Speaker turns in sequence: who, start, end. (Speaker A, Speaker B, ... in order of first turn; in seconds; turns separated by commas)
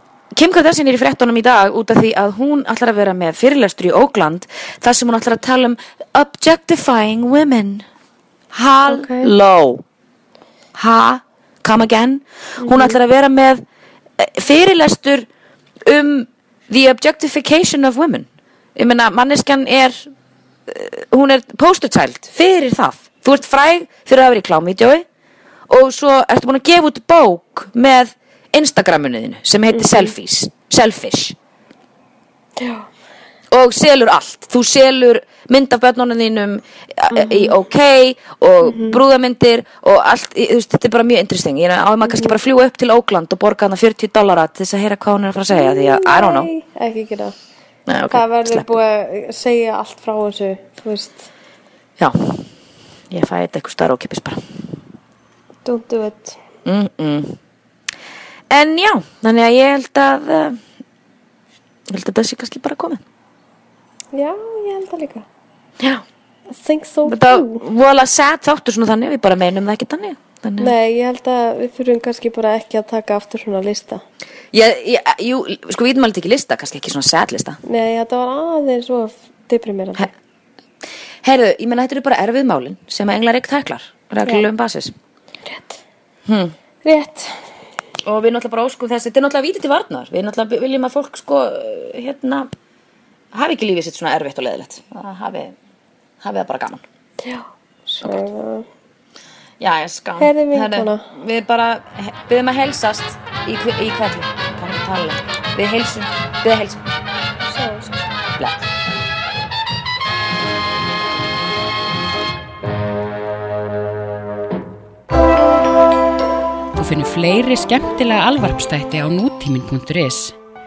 Speaker A: 0.3-7.8, Speaker A: 8.5-9.8, Speaker B: 8.8-9.3, Speaker A: 10.7-13.6, Speaker B: 12.6-12.9, Speaker A: 14.2-15.3, Speaker A: 15.8-20.1, Speaker A: 20.7-25.0, Speaker A: 25.7-31.4, Speaker B: 29.7-30.1, Speaker B: 32.6-32.9, Speaker A: 33.5-46.5, Speaker B: 37.1-37.5, Speaker B: 38.6-39.0, Speaker B: 42.1-42.3, Speaker B: 45.5-47.4, Speaker A: 47.9-48.7, Speaker B: 48.1-51.3, Speaker A: 52.0-52.5, Speaker A: 53.1-54.4, Speaker B: 55.6-56.4, Speaker A: 56.6-57.4, Speaker A: 58.5-60.6, Speaker A: 61.9-63.0, Speaker B: 64.1-65.3, Speaker A: 65.8-66.0, Speaker B: 66.5-67.6, Speaker A: 67.0-70.7, Speaker B: 70.6-74.0, Speaker A: 74.5-77.6, Speaker B: 77.6-80.1, Speaker A: 81.2-84.9, Speaker B: 85.5-85.7, Speaker A: 86.2-86.5, Speaker B: 86.8-87.4, Speaker A: 88.0-92.5, Speaker A: 93.3-95.5, Speaker A: 96.2-96.8, Speaker B: 97.2-98.7, Speaker A: 99.6-106.8, Speaker B: 100.2-101.1, Speaker B: 107.4-108.0, Speaker A: 108.4-108.7, Speaker C: 116.8-120.3